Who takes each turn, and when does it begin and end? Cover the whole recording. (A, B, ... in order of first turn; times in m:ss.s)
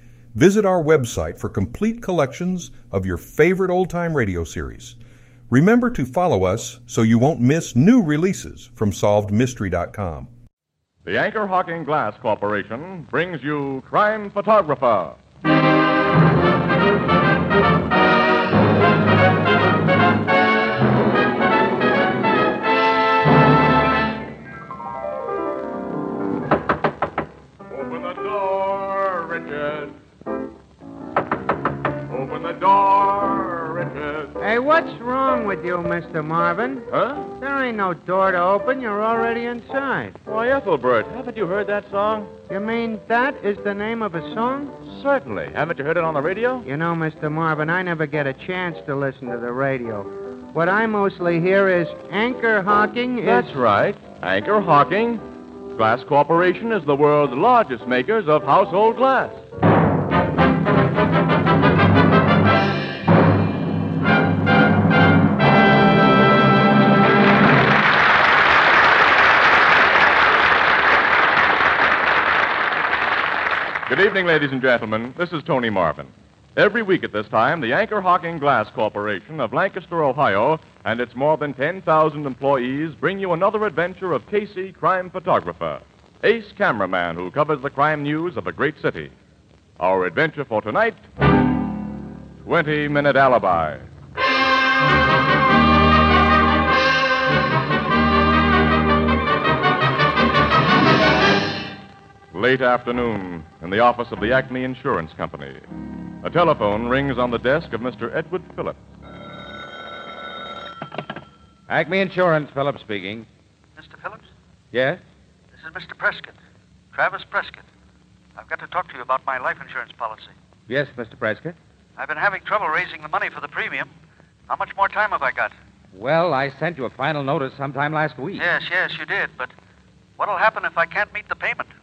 0:00.4-0:05.0 A
0:05.5-0:10.3 A
0:11.0-0:15.2 B
0:27.7-0:30.0 B
0:32.1-0:34.4 B
0:34.4-0:36.9 C
0:36.9-0:37.3 B
0:37.4-0:40.2 C
0:40.3-0:42.3 B
0:42.5-0:44.8 C
0:44.8-0:46.7 B
0:46.6-0:53.6 C
0:53.2-0:55.2 B
0:55.8-0:59.4 B
1:13.9-1:29.1 B
1:29.8-1:31.0 B
1:32.4-1:33.8 B
1:42.3-1:45.6 B
1:46.2-1:48.8 B
1:51.7-1:53.3 D
1:53.8-1:54.2 E
1:54.7-1:55.0 D
1:55.6-1:56.3 E
1:56.9-1:57.6 E
1:58.4-2:00.3 E
2:00.7-2:01.6 D
2:02.0-2:03.9 E
2:04.5-2:05.5 E
2:05.9-2:08.4 D
2:08.4-2:09.5 E
2:10.2-2:11.7 E